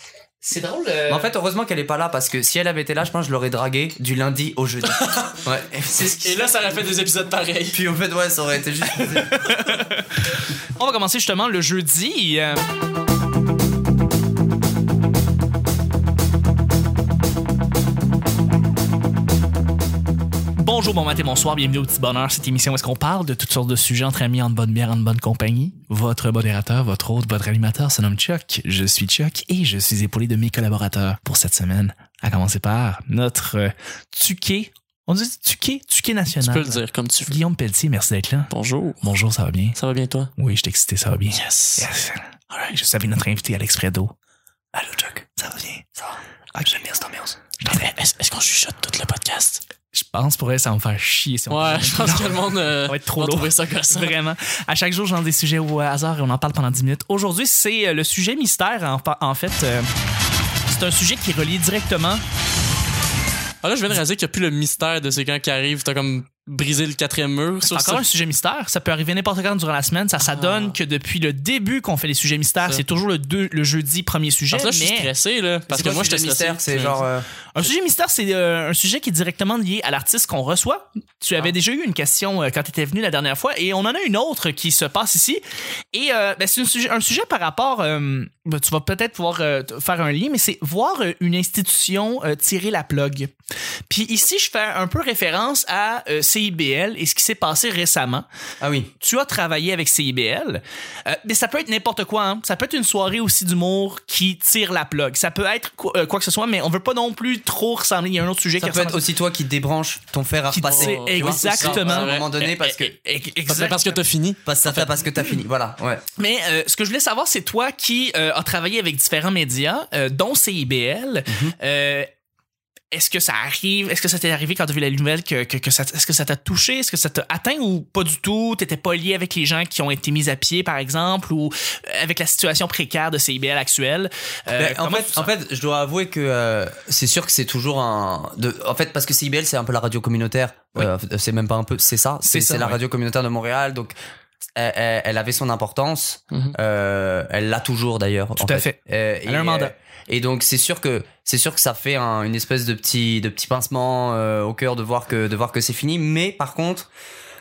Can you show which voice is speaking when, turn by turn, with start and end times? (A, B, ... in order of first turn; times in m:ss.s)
0:00.4-0:01.3 A
0:01.1-0:06.4 B
0:04.9-0:05.4 C
0:06.2-0:07.8 C
0:07.7-0:09.4 B
0:09.0-0:12.6 A
0:20.6-0:38.5 A
0:36.4-0:37.4 C
0:38.5-0:39.0 C
0:39.0-0:39.8 A
0:39.8-0:40.3 C
0:40.4-0:44.1 A
0:41.3-0:41.9 C
0:44.7-0:45.9 A
0:46.5-0:47.9 A
0:47.7-0:49.6 C
0:49.9-0:59.8 A
0:51.5-0:54.2 C
1:00.7-1:02.2 A
1:03.6-1:08.0 C
1:07.7-1:15.1 A
1:10.2-1:10.8 C
1:14.5-1:17.0 C
1:15.7-1:17.3 B
1:17.5-1:25.4 A
1:25.9-1:33.3 A
1:33.9-1:38.2 A
1:38.6-1:38.9 B
1:39.0-1:49.0 A
1:48.6-1:52.9 B
1:50.5-1:54.0 A
1:50.6-1:52.3 C
1:53.5-1:55.0 C
1:54.4-1:56.0 B
1:56.2-2:02.1 A
2:01.3-2:01.5 B
2:02.9-2:15.3 A
2:14.5-2:23.9 B
2:22.3-2:22.8 A
2:24.6-2:36.9 B
2:28.4-2:29.7 A